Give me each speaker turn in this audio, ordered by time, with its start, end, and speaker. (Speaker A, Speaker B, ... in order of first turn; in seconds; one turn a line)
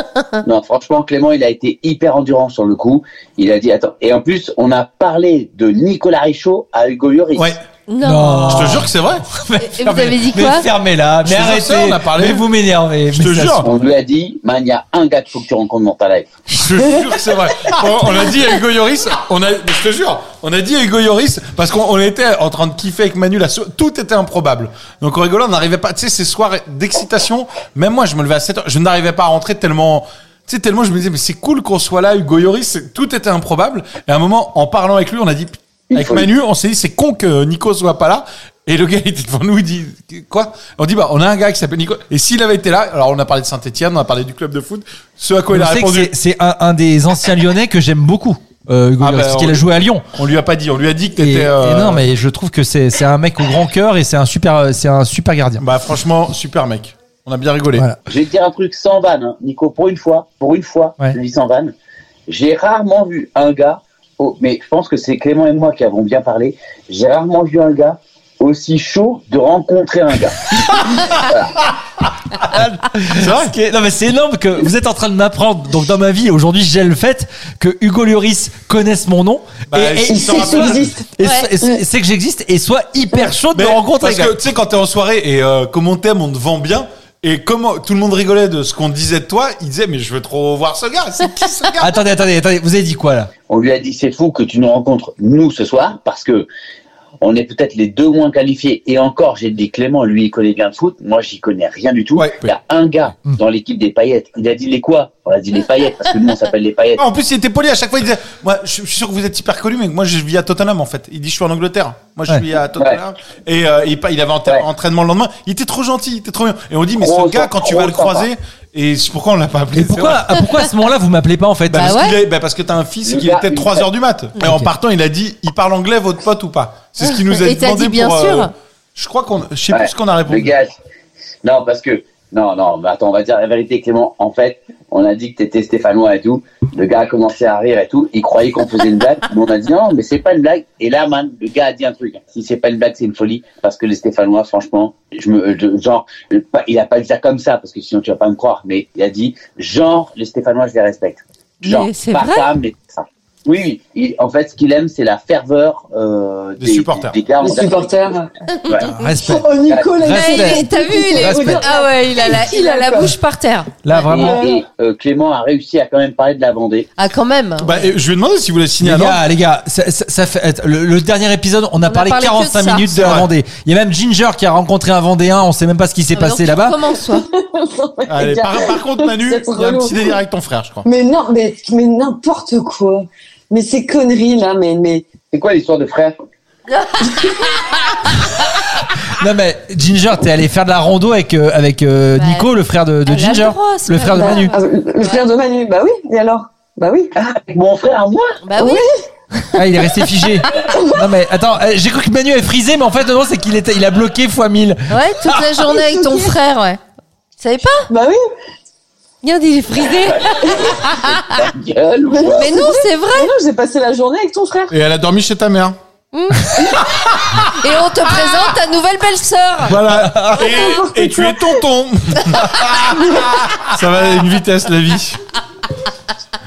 Speaker A: 0.4-7.5
Speaker B: 7.9-8.4
Speaker C: 8.0-13.7
Speaker D: 8.5-9.2
Speaker B: 9.6-10.7
Speaker D: 11.2-12.4
Speaker D: 13.1-13.7
Speaker A: 13.6-16.3
Speaker D: 16.5-46.1
Speaker A: 35.9-36.3
Speaker C: 45.5-50.0
Speaker D: 49.0-49.6
Speaker D: 50.1-52.0
Speaker C: 51.2-55.6
Speaker D: 55.6-57.9
Speaker A: 58.0-61.7
Speaker A: 62.3-71.6
Speaker C: 72.4-84.3
Speaker D: 73.2-73.5
Speaker D: 79.7-81.0
Speaker E: 80.1-81.8
Speaker D: 83.5-91.9
Speaker C: 91.8-93.3
Speaker A: 93.5-96.5
Speaker A: 97.2-107.0
Speaker D: 102.2-102.5
Speaker D: 107.0-120.4
Speaker A: 112.8-113.0
Speaker A: 117.0-118.3
Speaker C: 119.7-122.0
Speaker D: 121.7-130.5
Speaker B: 121.8-122.2
Speaker A: 123.0-123.9
Speaker C: 124.4-124.7
Speaker B: 127.4-128.5
Speaker A: 129.7-130.7
Speaker A: 131.4-158.1
Speaker B: 151.6-152.5
Speaker D: 156.6-157.2
Speaker E: 157.4-158.3
Speaker A: 158.7-158.9
Speaker C: 158.8-159.5
Speaker E: 159.2-163.2
Speaker A: 159.6-160.0
Speaker C: 160.0-161.7
Speaker B: 160.1-163.7
Speaker C: 163.8-164.4
Speaker E: 163.9-164.6
Speaker A: 164.0-166.9
Speaker B: 167.0-167.7
Speaker D: 167.6-169.2
Speaker C: 168.8-176.8
Speaker B: 171.8-172.9
Speaker D: 172.9-173.3
Speaker B: 176.1-177.2
Speaker E: 177.1-180.2
Speaker D: 178.1-180.8
Speaker E: 180.8-185.1
Speaker A: 185.3-186.2
Speaker B: 186.7-187.1
Speaker E: 187.0-187.3
Speaker C: 189.2-194.5
Speaker B: 192.1-192.4
Speaker B: 193.1-195.2
Speaker E: 194.1-197.1
Speaker A: 197.2-198.4
Speaker B: 198.5-198.8
Speaker E: 198.6-199.1
Speaker C: 199.5-205.4
Speaker B: 204.9-206.8
Speaker E: 205.6-206.4
Speaker B: 207.4-207.8
Speaker E: 207.9-208.2
Speaker B: 209.2-211.2
Speaker A: 210.9-212.6
Speaker E: 212.1-214.7
Speaker B: 212.4-213.3
Speaker D: 214.7-215.8
Speaker B: 216.1-216.4
Speaker D: 216.8-218.0
Speaker B: 217.6-219.7
Speaker D: 219.6-225.2
Speaker C: 219.8-220.5
Speaker E: 220.3-221.6
Speaker E: 222.9-223.2